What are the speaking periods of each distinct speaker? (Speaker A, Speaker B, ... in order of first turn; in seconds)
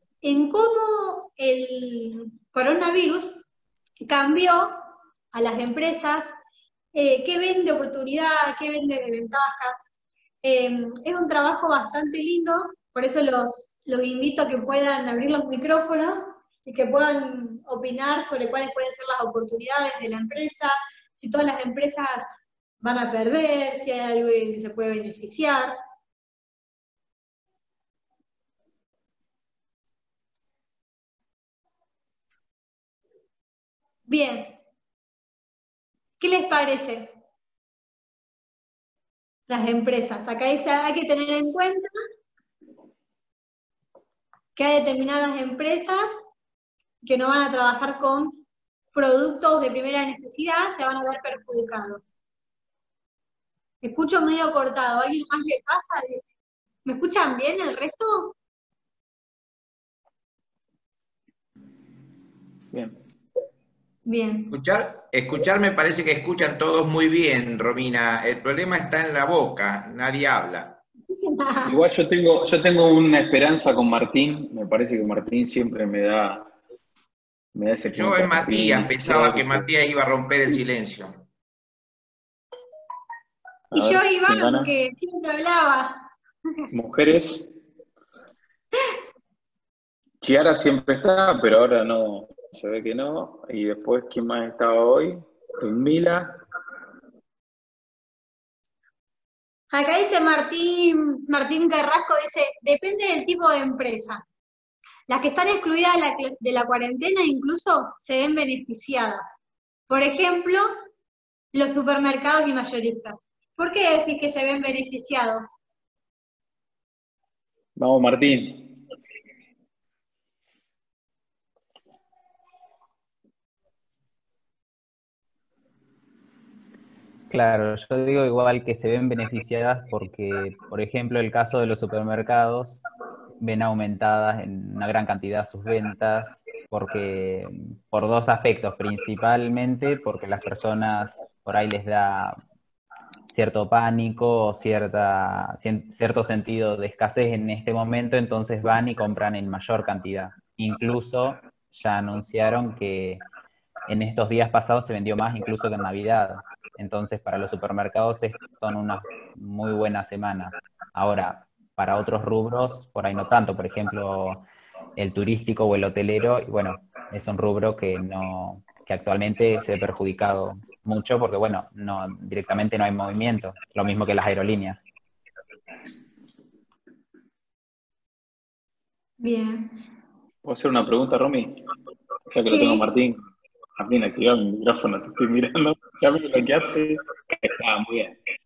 Speaker A: 0.2-3.4, 4.0-6.3, 6.9-9.9, 10.4-25.7, 34.1-34.5, 36.2-37.1, 39.5-41.9, 44.5-46.2, 47.0-48.4, 48.9-52.0, 53.8-56.3, 56.8-58.3, 64.0-64.5, 71.2-71.7, 83.7-86.1, 99.7-104.2, 105.1-109.3, 109.9-110.8, 111.5-115.5, 179.2-179.8, 182.4-182.9
Speaker B: 62.7-63.0, 71.6-76.5, 77.5-79.7, 83.7-84.7, 86.7-87.5, 90.2-96.4, 117.8-118.8, 180.4-181.6, 182.3-183.2, 183.8-188.2
Speaker C: 64.5-70.8, 77.9-81.2
Speaker D: 127.3-132.8, 133.4-142.4, 143.3-153.2, 153.9-164.4, 164.9-174.8